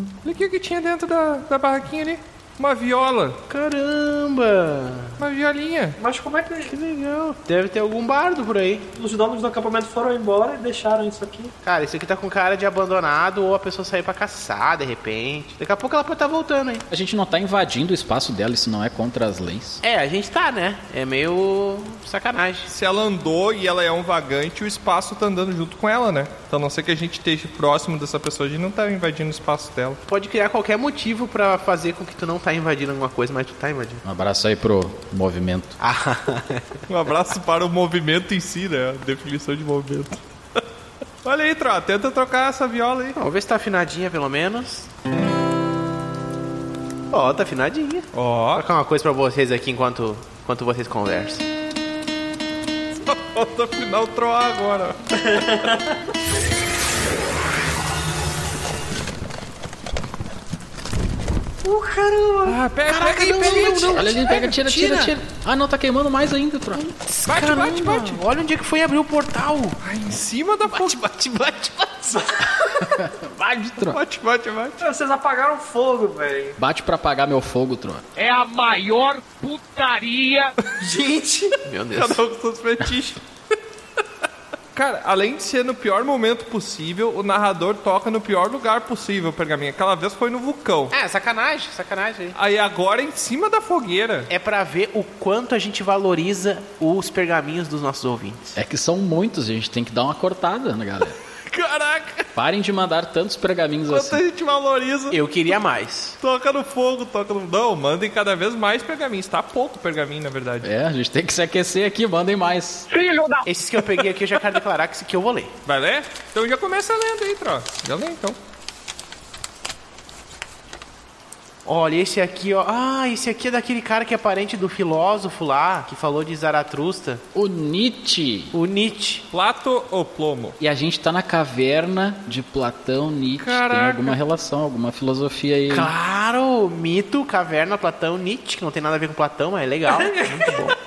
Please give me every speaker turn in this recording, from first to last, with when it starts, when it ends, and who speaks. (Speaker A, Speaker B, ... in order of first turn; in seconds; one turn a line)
Speaker A: 0.2-3.4
Speaker B: 3.5-5.2
Speaker A: 5.2-6.0
Speaker C: 6.0-6.7
Speaker B: 6.7-8.9
Speaker C: 8.9-11.5
Speaker B: 11.6-16.8
Speaker D: 16.9-19.8
Speaker B: 19.8-22.7
Speaker A: 22.7-30.0
Speaker B: 30.1-34.0
Speaker D: 34.0-35.8
Speaker B: 35.8-36.8
Speaker A: 36.9-40.6
Speaker A: 41.2-43.2
Speaker B: 43.2-44.9
Speaker B: 47.1-51.4
Speaker A: 48.1-48.7
Speaker A: 53.0-55.6
Speaker C: 55.2-55.9
Speaker C: 61.6-62.6
Speaker A: 62.5-64.1
Speaker B: 62.9-65.1
Speaker D: 63.9-66.8
Speaker B: 66.7-69.8
Speaker A: 67.2-68.2
Speaker A: 69.8-71.9
Speaker B: 70.7-72.2
Speaker D: 72.8-74.0
Speaker A: 73.8-74.8
Speaker C: 74.8-76.6
Speaker D: 76.6-78.0
Speaker E: 78.2-80.5
Speaker C: 80.8-81.6
Speaker B: 81.6-82.2
Speaker A: 81.9-83.2
Speaker A: 84.7-90.9
Speaker B: 90.9-92.3
Speaker A: 92.3-94.3
Speaker B: 94.3-98.5
Speaker D: 98.5-101.2
Speaker A: 101.5-102.3
Speaker D: 102.3-104.2
Speaker A: 103.9-105.2
Speaker B: 105.1-106.2
Speaker A: 106.2-110.7
Speaker D: 110.6-112.9
Speaker E: 112.9-113.4
Speaker B: 113.5-115.5
Speaker A: 115.7-118.4
Speaker B: 121.6-127.2
Speaker D: 127.3-128.6
Speaker B: 128.5-129.2
Speaker A: 129.3-130.6
Speaker D: 130.6-135.9
Speaker A: 133.4-134.2
Speaker B: 135.7-140.7
Speaker C: 139.9-140.5